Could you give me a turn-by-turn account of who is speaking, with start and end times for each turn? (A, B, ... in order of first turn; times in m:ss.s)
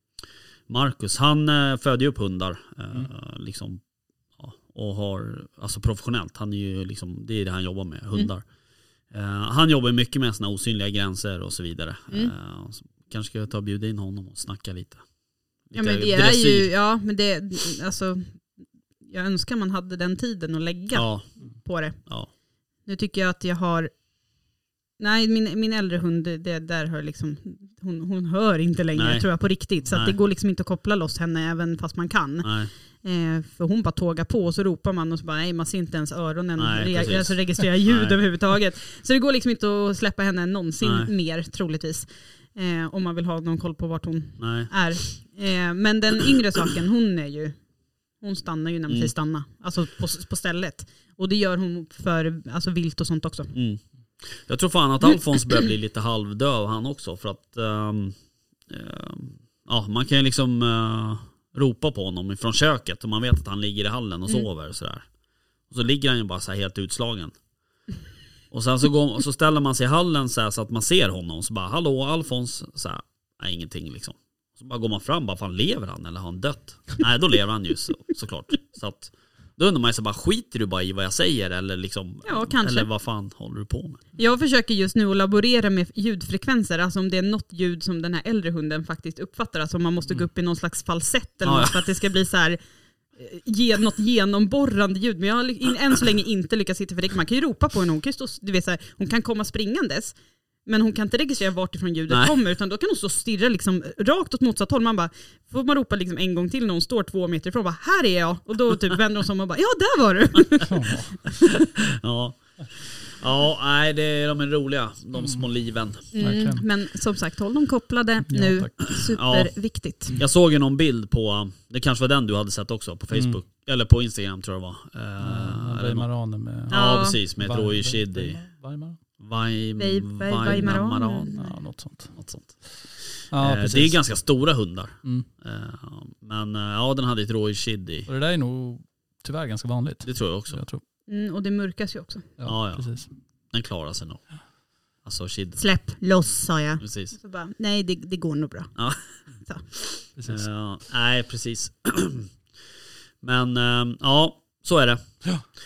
0:00.7-0:03.8 A
0:04.4-0:08.4 A
0:09.1-0:15.0 A
0:15.6-0:16.7 A
0:15.7-0:18.4 B
0:19.0-0:22.0 B
0:20.9-0:21.3 A
0:22.0-0:22.3 A
0:22.8-0:23.9 B
0:25.0-0:47.6 B
0:29.0-0:30.1 A
0:32.4-0:32.7 A
0:36.6-0:38.2 A
0:40.8-0:41.1 A
0:44.4-0:44.7 A
0:48.2-0:53.5 B
0:53.5-0:58.2 A
0:58.7-1:05.0 A
1:05.7-1:07.3 A
1:08.5-1:24.0 A
1:22.2-1:22.9 B
1:24.2-1:32.6 B
1:31.4-1:31.9 A
1:33.1-1:51.0 B
1:50.6-1:51.1 C
1:51.3-1:56.1 A
1:55.2-1:55.5 C
1:56.1-2:00.2 B
1:56.1-1:56.6 C
1:58.3-1:58.7 C
1:58.9-1:59.5 A
2:00.1-2:06.1 A
2:03.1-2:03.4 C
2:05.2-2:09.0 C
2:06.7-2:08.4 A
2:06.7-2:07.2 B
2:09.2-2:11.4 A
2:09.8-2:11.5 B
2:10.5-2:10.8 C
2:11.3-2:12.2 C
2:12.1-2:18.1 A
2:13.3-2:14.0 C
2:18.1-2:20.8 C
2:20.0-2:20.6 A
2:21.1-2:22.3 B
2:22.4-2:23.1 C
2:22.4-2:22.9 A
2:23.5-2:24.3 A
2:25.0-2:25.6 A
2:25.6-2:28.7 B
2:26.8-2:27.1 A
2:28.8-2:29.0 A
2:29.9-2:32.3 A
2:30.2-2:30.4 C
2:33.2-2:35.0 A